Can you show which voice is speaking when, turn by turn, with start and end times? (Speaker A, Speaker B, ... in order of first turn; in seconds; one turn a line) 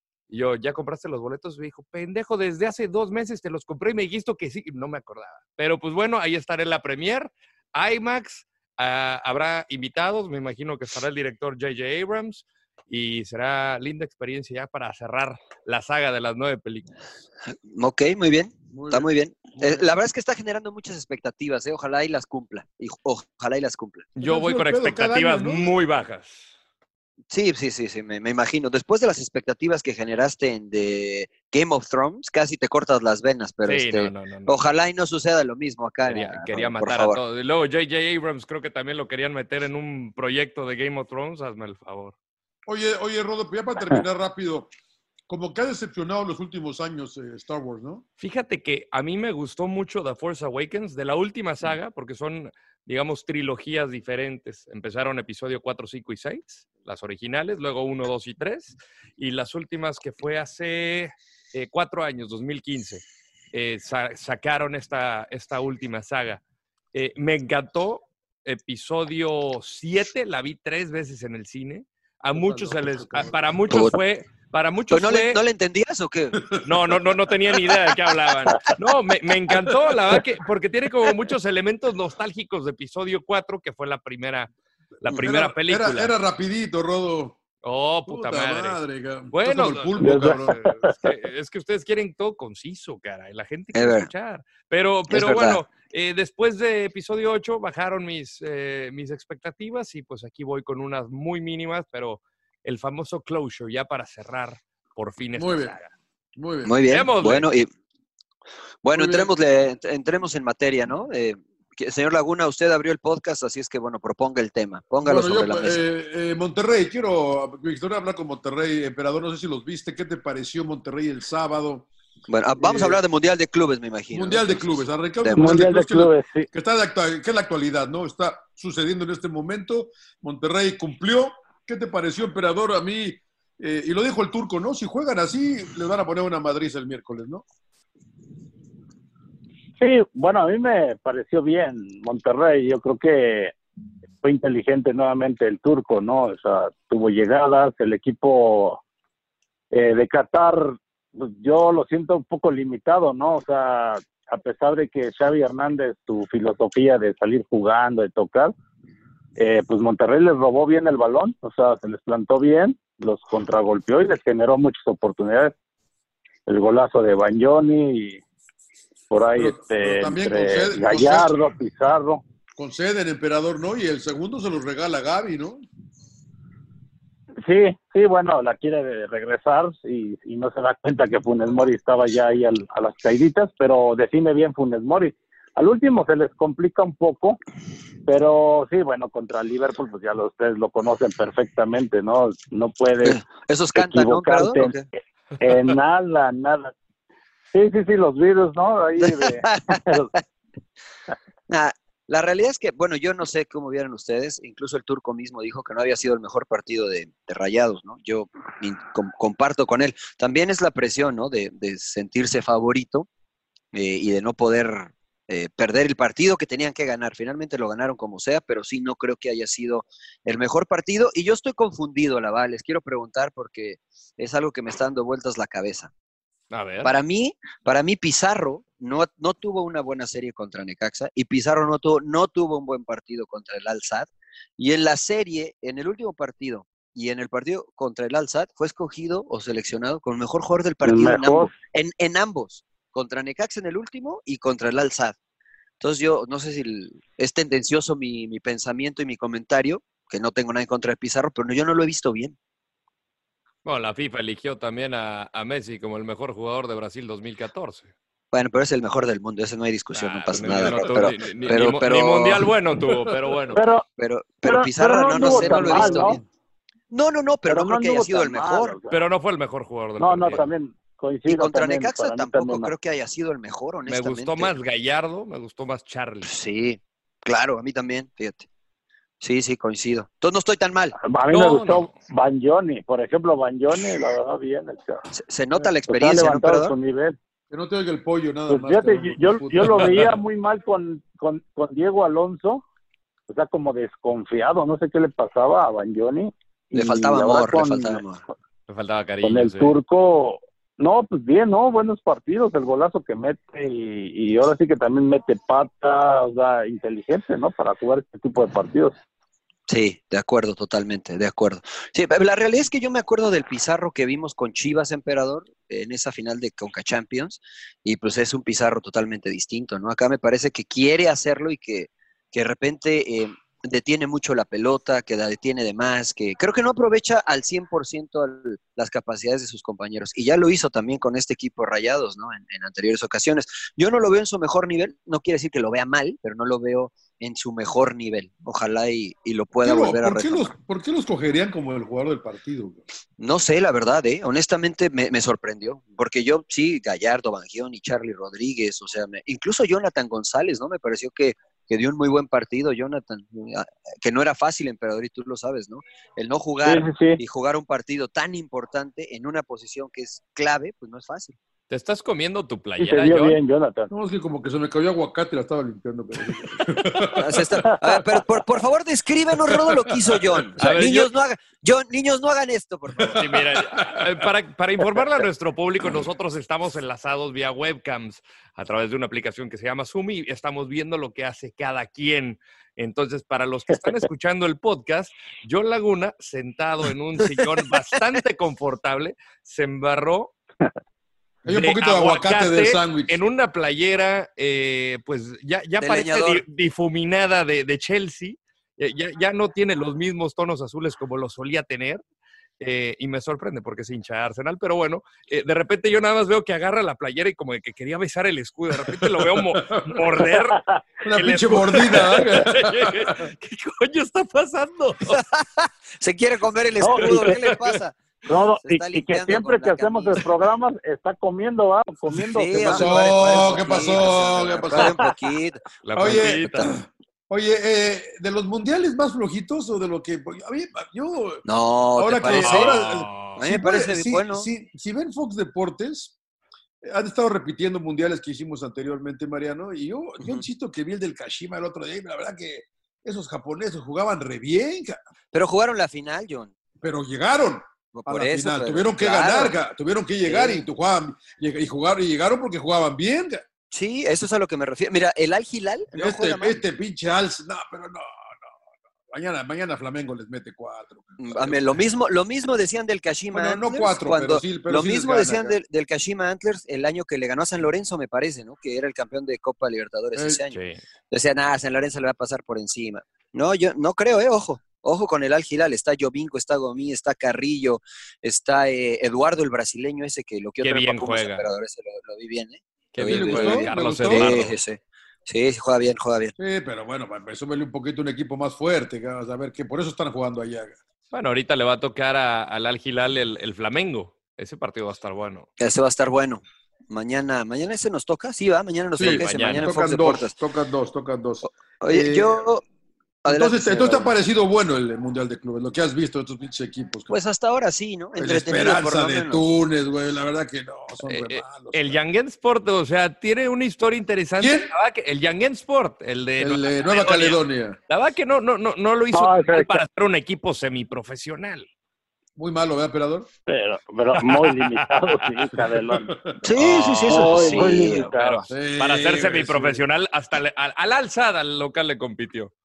Speaker A: 0.3-16.9
Speaker B: 17.5-24.1
Speaker C: 18.7-19.9
Speaker A: 24.2-26.5
Speaker C: 24.2-25.7
Speaker B: 27.3-37.2
Speaker A: 33.6-34.6
Speaker A: 36.0-42.1
Speaker C: 42.7-44.7
Speaker C: 45.3-48.0
Speaker A: 48.2-66.4
Speaker A: 66.9-75.4
Speaker C: 72.3-73.6
Speaker B: 73.7-73.9
Speaker B: 74.9-76.5
Speaker C: 76.4-77.8
Speaker A: 76.6-86.1
Speaker C: 79.5-80.2
Speaker C: 85.1-87.4
Speaker A: 87.6-88.8
Speaker C: 88.1-90.6
Speaker A: 89.3-105.9
Speaker D: 90.0-90.9
Speaker B: 93.7-94.1
Speaker B: 95.1-95.6
Speaker C: 105.4-105.8
Speaker C: 106.3-106.7
Speaker B: 106.6-107.7
Speaker A: 106.9-107.5
Speaker B: 108.8-115.8
Speaker C: 108.9-109.3
Speaker C: 115.0-121.9
Speaker B: 122.3-125.6
Speaker C: 122.6-123.0
Speaker C: 124.1-137.4
Speaker D: 125.3-126.5
Speaker D: 139.8-143.5
Speaker D: 144.2-148.8
Speaker D: 149.7-158.5
Speaker D: 159.4-165.5
Speaker D: 166.5-168.2
Speaker D: 169.1-172.2
Speaker C: 169.3-171.3
Speaker C: 172.6-175.6
Speaker D: 177.4-187.4
Speaker D: 188.1-194.8
Speaker B: 193.0-194.8
Speaker D: 195.4-196.7
Speaker D: 197.5-200.1
Speaker B: 199.0-199.9
Speaker B: 201.5-213.1
Speaker B: 213.7-225.9
Speaker A: 226.5-226.9
Speaker B: 226.8-245.2
Speaker D: 240.8-241.5
Speaker B: 245.8-252.3
Speaker A: 253.6-257.9
Speaker B: 258.3-262.5
Speaker A: 259.9-263.6
Speaker C: 262.9-263.3
Speaker D: 263.5-263.8
Speaker B: 264.0-266.2
Speaker D: 264.4-266.2
Speaker A: 265.2-266.0
Speaker B: 266.9-268.8
Speaker D: 267.5-269.0
Speaker A: 268.9-270.4
Speaker D: 270.0-272.7
Speaker B: 271.3-274.5
Speaker A: 273.9-276.3
Speaker B: 276.2-278.4
Speaker B: 279.2-280.9
Speaker D: 281.0-285.0
Speaker A: 281.3-281.9
Speaker B: 285.1-286.7
Speaker D: 285.9-287.2
Speaker C: 287.5-290.1
Speaker D: 288.5-292.6
Speaker A: 289.8-290.1
Speaker D: 293.3-298.0
Speaker B: 296.7-298.2
Speaker A: 298.7-299.7
Speaker D: 299.2-308.9
Speaker B: 309.7-340.5
Speaker C: 339.6-342.8
Speaker B: 343.2-361.4
Speaker D: 356.6-357.2
Speaker A: 361.7-363.4
Speaker D: 362.8-363.9
Speaker C: 363.9-367.8
Speaker B: 367.1-373.2
Speaker C: 369.4-370.4
Speaker A: 370.6-371.1
Speaker C: 372.9-374.3
Speaker A: 373.2-390.3
Speaker C: 391.4-393.2
Speaker A: 391.5-402.0
Speaker B: 395.8-396.4
Speaker A: 402.6-415.2
Speaker C: 408.7-410.2
Speaker C: 411.0-413.3
Speaker B: 415.0-417.9
Speaker D: 416.8-417.4
Speaker A: 416.9-417.8
Speaker D: 418.3-423.7
Speaker B: 418.6-420.3
Speaker B: 422.3-426.8
Speaker C: 422.6-425.0
Speaker A: 425.8-426.7
Speaker C: 425.9-431.4
Speaker B: 431.4-432.7
Speaker C: 431.9-436.1
Speaker A: 432.2-433.4
Speaker B: 433.4-434.5
Speaker C: 436.8-445.0
Speaker B: 445.3-446.5
Speaker C: 446.8-453.4
Speaker B: 447.9-449.5
Speaker B: 450.2-450.6
Speaker B: 453.7-456.6
Speaker C: 455.9-458.5
Speaker C: 459.1-461.8
Speaker B: 461.2-470.6
Speaker C: 463.3-465.6
Speaker C: 470.1-470.4
Speaker A: 470.5-470.8
Speaker B: 471.1-486.3
Speaker A: 480.6-481.5
Speaker A: 482.9-484.6
Speaker C: 483.0-484.4
Speaker C: 486.4-490.8
Speaker A: 491.1-495.5
Speaker B: 495.6-500.3
Speaker C: 498.9-502.5
Speaker A: 499.0-499.7
Speaker B: 501.4-502.6
Speaker B: 503.2-504.1
Speaker C: 503.2-507.2
Speaker B: 507.1-509.4
Speaker C: 508.1-512.0
Speaker A: 511.0-521.7
Speaker C: 514.4-514.7
Speaker C: 516.4-517.8
Speaker D: 519.1-519.8
Speaker C: 522.4-523.3
Speaker D: 523.5-526.1
Speaker A: 524.2-525.2
Speaker C: 525.9-526.4
Speaker B: 526.4-528.1
Speaker A: 526.5-532.5
Speaker D: 527.1-528.5
Speaker C: 528.5-529.8